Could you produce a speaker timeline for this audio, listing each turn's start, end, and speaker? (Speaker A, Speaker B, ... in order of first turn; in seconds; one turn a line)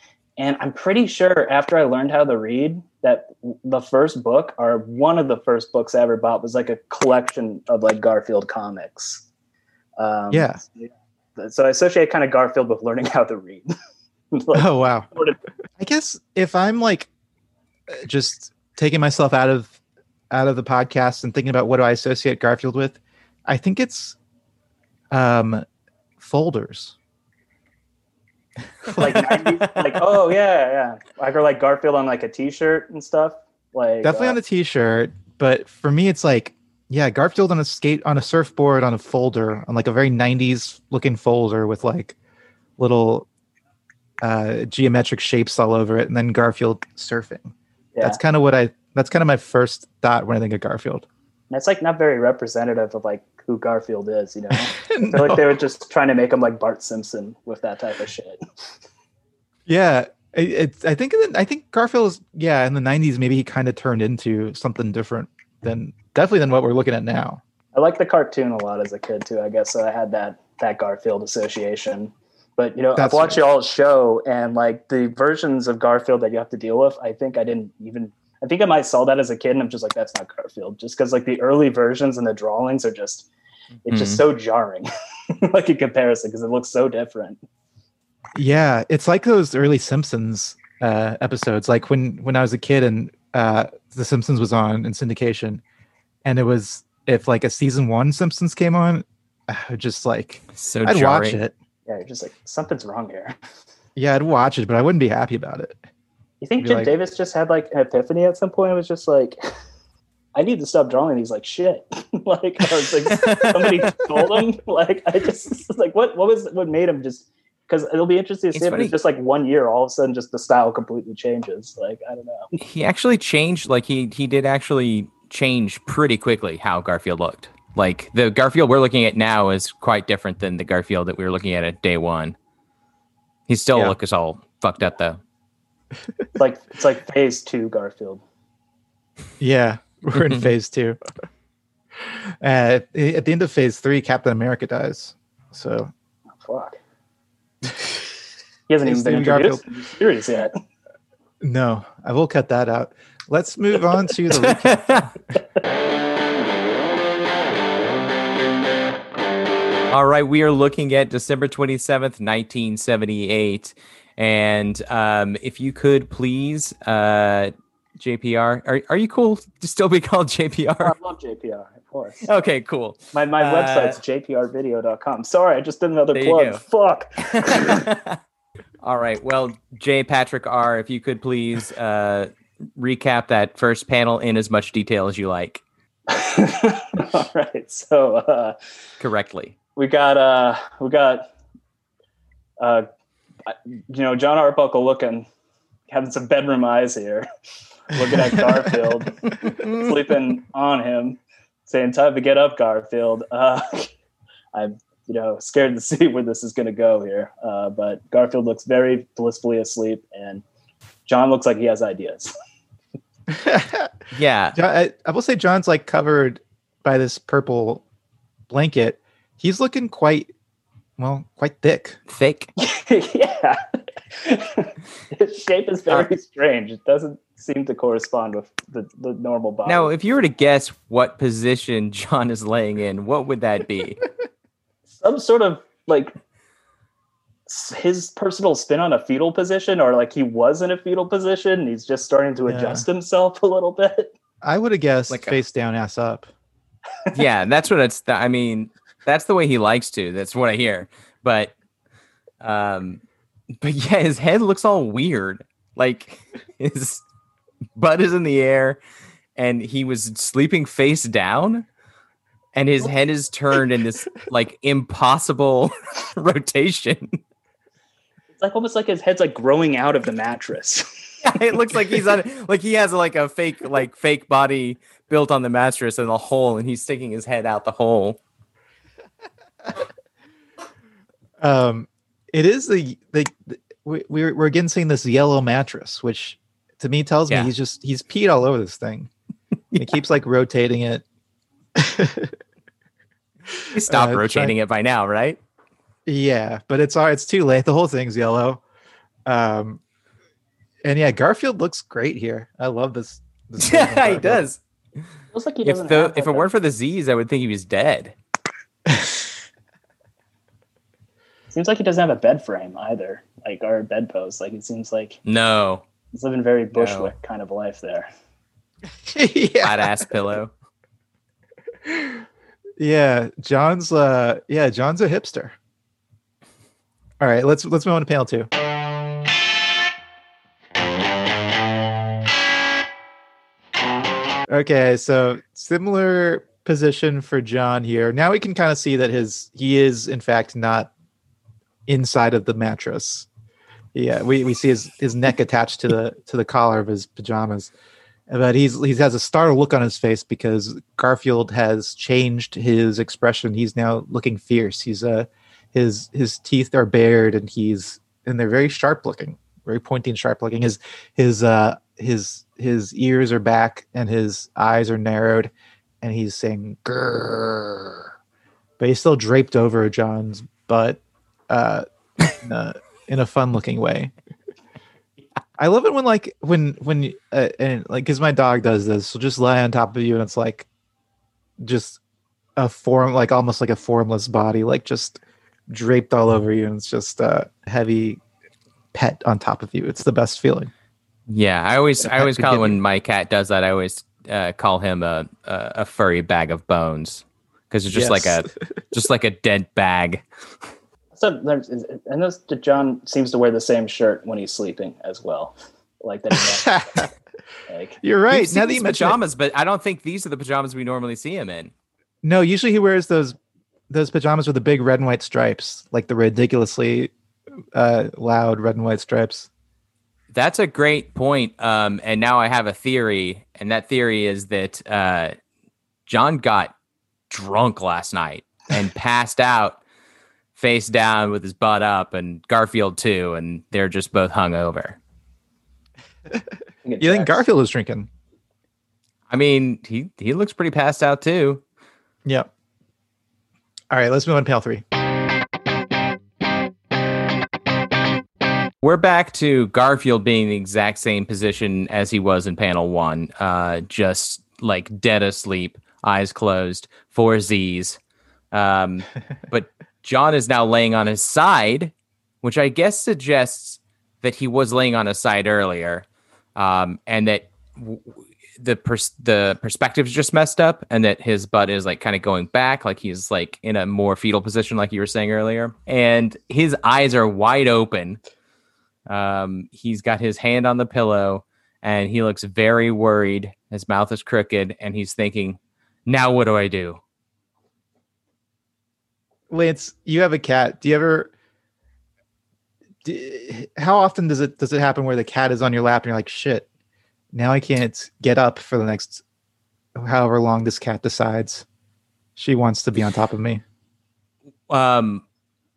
Speaker A: 0.4-9.2
Speaker A: 10.0-13.7
Speaker B: 10.3-10.6
Speaker A: 14.3-15.4
Speaker B: 14.5-15.1
Speaker B: 15.8-17.1
Speaker B: 17.9-19.8
Speaker B: 20.3-24.2
Speaker B: 25.1-25.6
Speaker B: 26.2-27.0
Speaker B: 28.8-29.5
Speaker A: 29.0-34.4
Speaker B: 34.0-42.2
Speaker B: 42.8-43.3
Speaker B: 44.2-51.1
Speaker A: 51.5-58.4
Speaker B: 54.7-55.5
Speaker B: 59.7-67.4
Speaker A: 67.7-83.3
Speaker B: 73.0-73.5
Speaker A: 83.9-87.4
Speaker C: 83.9-84.2
Speaker B: 88.3-95.6
Speaker B: 96.2-101.5
Speaker C: 100.6-101.4
Speaker A: 101.9-103.3
Speaker B: 104.0-105.8
Speaker A: 106.4-109.4
Speaker B: 106.6-106.9
Speaker A: 110.3-122.5
Speaker C: 113.1-113.7
Speaker C: 118.5-118.9
Speaker C: 122.6-132.3
Speaker C: 133.5-135.2
Speaker A: 136.4-138.2
Speaker B: 139.4-141.0
Speaker C: 140.2-140.5
Speaker B: 142.4-145.9
Speaker A: 146.4-146.8
Speaker A: 148.7-150.5
Speaker B: 148.8-149.6
Speaker B: 151.4-155.1
Speaker C: 154.3-155.1
Speaker C: 159.9-170.9
Speaker A: 170.8-172.3
Speaker C: 172.2-174.0
Speaker A: 173.1-177.8
Speaker C: 176.1-176.6
Speaker C: 177.3-178.2
Speaker C: 178.8-185.6
Speaker A: 186.1-188.6
Speaker C: 189.0-189.5
Speaker A: 189.8-191.3
Speaker A: 192.6-192.8
Speaker A: 193.5-195.3
Speaker A: 195.9-197.3
Speaker A: 197.9-203.9
Speaker A: 204.5-210.4
Speaker A: 211.1-212.3
Speaker B: 213.3-213.9
Speaker C: 214.1-214.6
Speaker B: 214.5-217.8
Speaker B: 218.5-220.3
Speaker B: 221.0-222.0
Speaker C: 222.1-222.5
Speaker A: 222.6-223.6
Speaker A: 224.1-229.9
Speaker C: 229.7-234.0
Speaker A: 234.9-236.1
Speaker A: 237.5-244.1
Speaker B: 242.5-242.8
Speaker B: 244.4-246.3
Speaker C: 245.1-245.4
Speaker C: 247.1-251.5
Speaker C: 252.4-253.0
Speaker C: 253.6-257.0
Speaker C: 257.8-258.8
Speaker C: 259.4-261.7
Speaker C: 262.5-267.2
Speaker A: 268.3-271.2
Speaker C: 271.2-278.2
Speaker B: 281.4-289.1
Speaker B: 289.8-291.0
Speaker B: 291.8-292.4
Speaker B: 293.5-294.5
Speaker C: 293.7-295.4
Speaker B: 296.1-298.6
Speaker B: 299.2-299.8
Speaker B: 300.9-304.5
Speaker C: 303.6-304.6
Speaker A: 305.3-306.5
Speaker C: 305.6-308.1
Speaker B: 308.9-309.2
Speaker A: 311.5-315.2
Speaker C: 315.2-315.8
Speaker A: 316.1-318.1
Speaker C: 316.8-317.1
Speaker B: 319.0-319.9
Speaker C: 319.6-320.5
Speaker B: 321.9-322.2
Speaker B: 322.8-325.5
Speaker B: 327.2-328.5
Speaker B: 334.5-340.9
Speaker B: 341.9-343.3
Speaker B: 343.9-347.7
Speaker B: 348.3-368.1
Speaker B: 368.8-374.1
Speaker B: 375.6-380.7
Speaker B: 381.6-382.0
Speaker B: 382.6-388.2
Speaker B: 388.9-390.7
Speaker C: 391.3-400.2
Speaker B: 392.0-392.8
Speaker B: 397.9-398.4
Speaker A: 401.1-406.7
Speaker B: 406.6-407.1
Speaker A: 407.7-408.0
Speaker B: 408.0-409.2
Speaker C: 408.3-411.7
Speaker B: 412.2-413.4
Speaker B: 413.9-417.1
Speaker B: 417.8-419.5
Speaker C: 420.3-425.3
Speaker C: 426.1-426.7
Speaker C: 427.3-429.8
Speaker C: 430.6-435.0
Speaker A: 436.9-437.4
Speaker B: 437.0-438.1
Speaker C: 439.3-441.6
Speaker B: 443.9-444.8
Speaker C: 448.8-458.0
Speaker C: 458.5-466.0
Speaker C: 466.6-478.2
Speaker C: 479.1-487.0
Speaker B: 489.5-491.3
Speaker B: 493.0-496.6
Speaker B: 497.3-499.2
Speaker B: 500.0-501.6
Speaker B: 502.4-503.6
Speaker C: 504.7-505.2